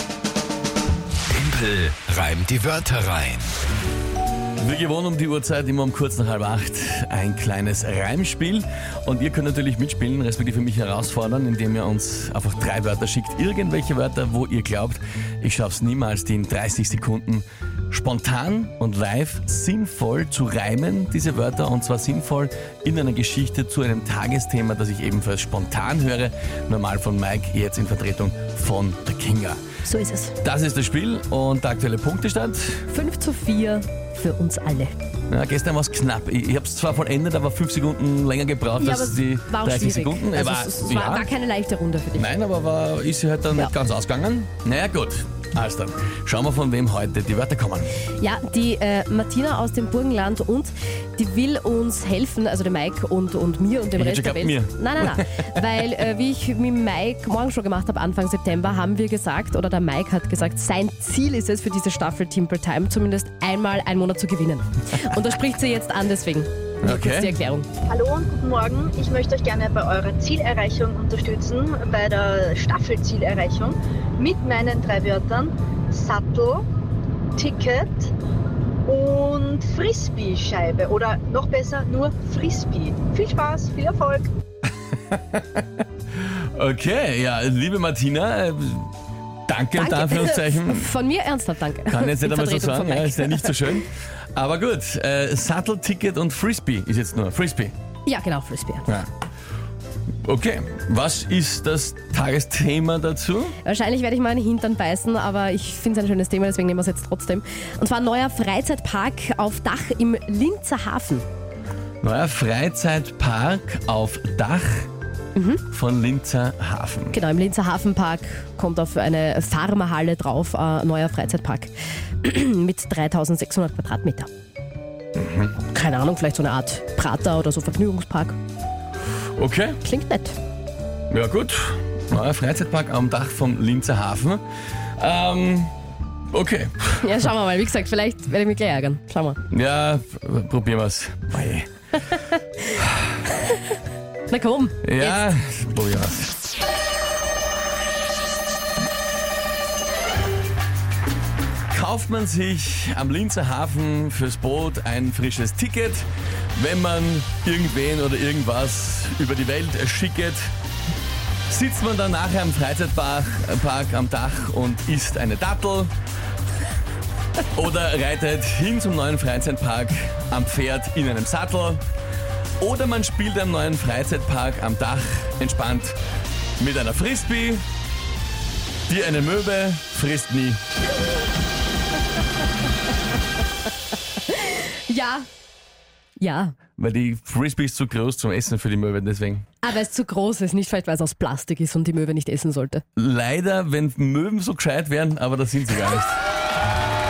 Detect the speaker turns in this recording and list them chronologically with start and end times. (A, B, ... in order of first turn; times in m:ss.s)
0:01.3-0:03.5 A
0:04.6-0:29.6 B
0:29.8-0:30.3 C
0:30.4-0:32.8 B
0:32.9-0:34.9 C
0:35.3-0:41.3 B
0:38.8-0:42.3 C
0:42.2-0:47.9 B
0:48.2-1:07.7 C
0:53.9-0:55.3 B
1:06.8-1:07.4 B
1:07.8-1:16.6 D
1:17.4-1:18.1 D
1:18.9-1:24.3 D
1:25.1-1:25.6 B
1:26.4-1:28.9 B
1:29.5-1:30.9 B
1:29.7-1:33.8 C
1:31.9-1:37.7 B
1:38.0-1:38.9 C
1:40.2-1:43.5 B
1:43.6-1:51.2 C
1:52.0-1:54.9 B
1:55.3-1:55.6 C
1:55.7-1:57.2 B
1:57.1-2:01.7 C
2:02.2-2:04.3 C
2:05.1-2:05.6 B
2:05.7-2:08.4 C
2:09.4-2:09.8 B
2:09.8-2:10.4 C
2:11.1-2:14.4 B
2:15.0-2:15.7 B
2:16.3-2:17.3 B
2:17.0-2:19.4 C
2:19.5-2:21.7 B
2:22.7-2:23.0 B
2:24.3-2:25.2 C
2:24.8-2:26.3 B
2:31.7-2:40.5 B
2:41.5-2:45.9 B
2:47.5-2:51.8 B
2:52.6-2:56.0 B
2:56.6-2:57.6 B
2:58.9-3:00.6 B
3:04.3-3:05.3 C
3:06.2-3:06.6 C
3:06.8-3:09.4 B
3:09.6-3:12.8 C
3:13.0-3:16.2 B